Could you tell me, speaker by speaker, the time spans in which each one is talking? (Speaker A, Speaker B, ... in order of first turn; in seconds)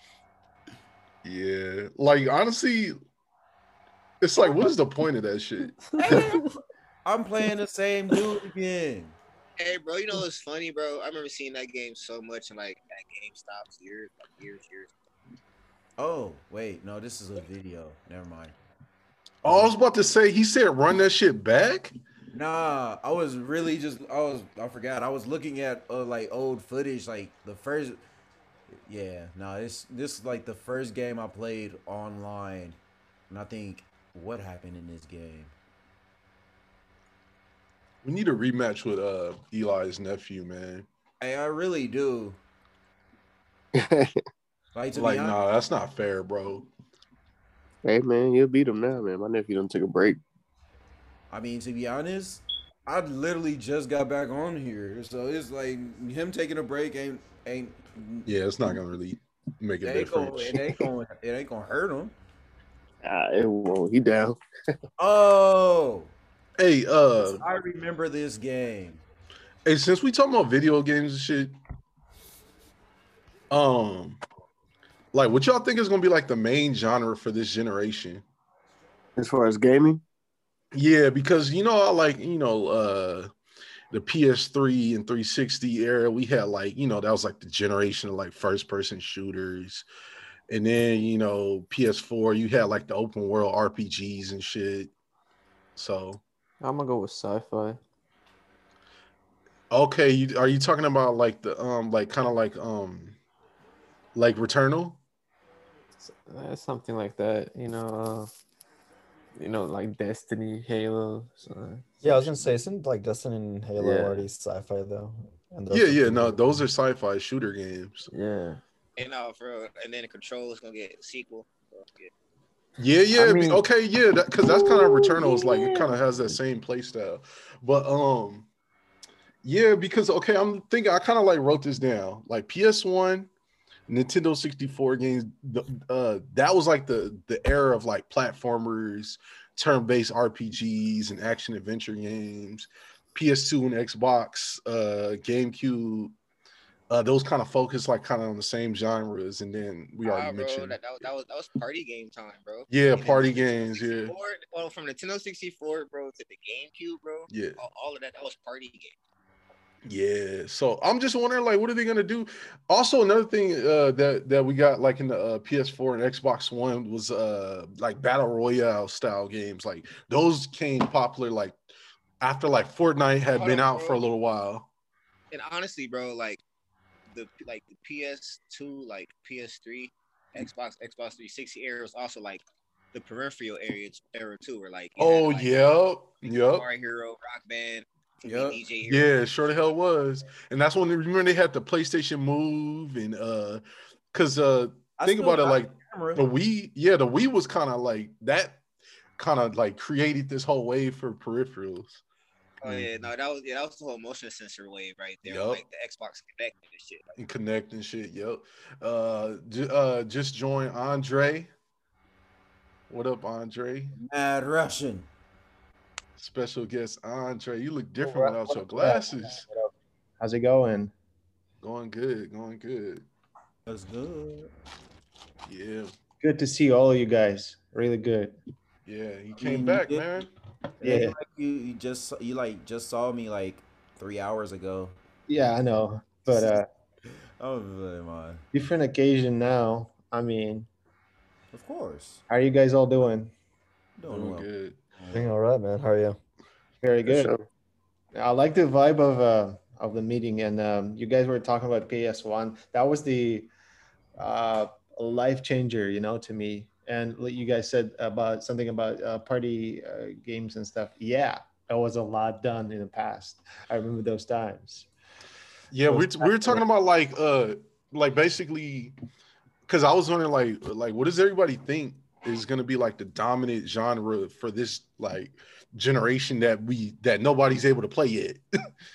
Speaker A: 1.2-3.0, 4.2-6.2, 19.4-21.9, 38.0-40.9, 44.9-46.7, 58.2-60.8, 66.6-67.4, 69.7-71.6, 73.5-74.2, 75.1-78.2, 80.7-83.3, 83.9-89.9, 90.5-94.9, 95.8-96.2, 99.7-103.2, 104.2-105.0, 115.7-118.1, 122.8-128.5, 129.4-133.3, 133.9-146.2, 146.9-150.8, 152.7-154.1, 157.3-157.6, 159.8-171.6, 172.2-174.7, 185.0-186.7, 188.8-193.6, 194.1-198.6, 199.2-202.0, 202.7-203.0, 205.2-205.6, 207.2-211.5, 212.9-213.9, 216.2-219.5, 221.6-223.1, 225.5-225.9, 228.9-230.3, 244.1-244.8, 265.7-268.9, 269.7-278.4
Speaker B: 5.9-6.3, 96.6-97.8, 106.0-108.3, 109.4-112.5, 113.8-114.3, 118.1-118.6, 123.1-123.6, 124.4-126.2
Speaker C: 6.0-9.2, 16.0-18.6, 19.5-19.7, 22.3-28.0, 28.9-32.8, 33.3-35.5, 41.2-42.4, 44.7-45.4, 51.3-58.3, 59.8-62.1, 65.0-66.1, 67.2-69.0, 188.2-188.6, 195.0-196.2, 214.0-215.1, 223.7-224.5, 229.4-230.2, 230.8-235.0, 236.3-236.6, 237.4-238.4, 241.5-242.2, 244.0-245.3
Speaker D: 9.6-14.9, 119.0-122.1, 150.1-159.0, 173.3-174.0, 175.3-176.4, 177.1-185.5, 186.3-189.1, 202.6-207.2
Speaker E: 43.8-44.2, 47.9-50.2, 63.0-64.4, 79.2-80.0, 247.1-247.4
Speaker F: 112.0-116.6, 245.1-246.2
Speaker G: 218.0-220.9, 226.2-228.4, 230.8-231.2, 235.3-236.7, 238.5-240.7, 242.3-243.3, 246.8-247.3, 248.2-253.5, 254.2-264.9, 265.9-266.6